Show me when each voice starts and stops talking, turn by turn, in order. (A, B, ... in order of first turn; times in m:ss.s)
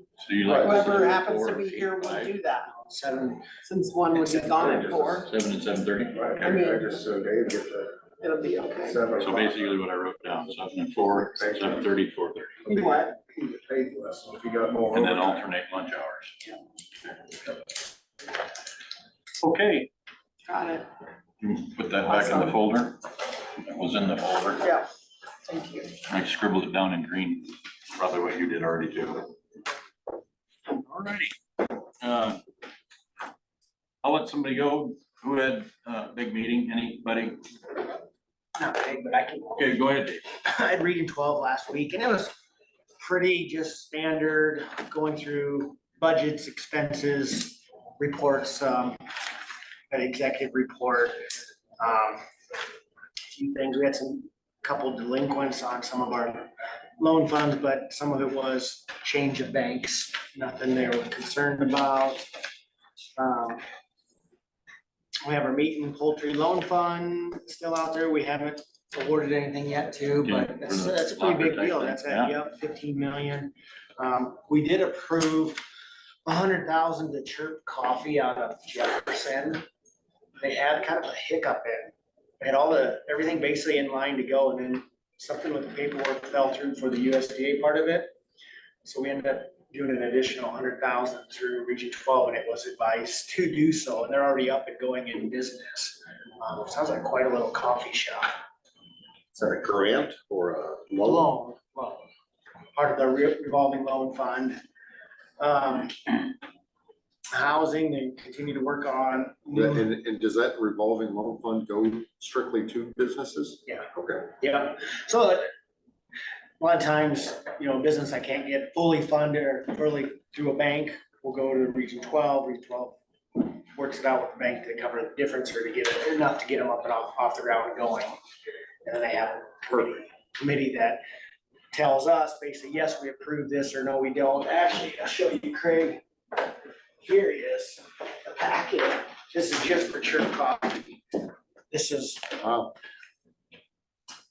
0:00.2-0:02.3 A
0:00.6-0:02.7 B
0:02.9-0:03.5 C
0:03.6-0:05.3 B
0:04.1-0:04.9 C
0:04.6-0:06.3 A
0:06.1-0:08.0 D
0:06.4-0:06.9 B
0:08.2-0:09.1 B
0:08.8-0:09.8 D
0:09.2-0:12.6 A
0:11.0-0:11.9 D
0:12.6-0:15.5 D
0:12.7-0:13.2 B
0:14.9-0:16.5 A
0:19.4-0:19.9 A
0:20.5-0:20.9 B
0:21.4-0:23.0 A
0:22.1-0:22.6 B
0:23.6-0:24.7 A
0:24.6-0:24.9 B
0:25.4-0:25.9 B
0:26.1-0:29.3 A
0:30.7-0:31.3 A
0:32.0-0:32.4 A
0:34.0-0:37.4 A
0:38.6-0:39.7 C
0:39.6-0:40.2 A
0:40.4-0:42.4 C
0:43.0-0:49.0 C
0:49.9-0:52.2 C
0:53.3-1:02.3 C
1:03.2-1:03.6 C
1:05.2-1:15.6 C
1:10.2-1:12.3 A
1:16.3-1:19.6 C
1:20.4-1:28.2 C
1:28.8-1:38.4 C
1:39.3-1:41.3 E
1:41.0-1:42.1 C
1:42.7-1:44.6 C
1:45.4-1:46.3 C
1:47.3-1:49.9 C
1:49.5-1:54.2 E
1:53.7-1:55.5 C
1:56.6-2:08.2 C
2:08.8-2:11.0 C
2:11.7-2:16.0 C
2:17.0-2:22.4 C
2:22.4-2:22.7 E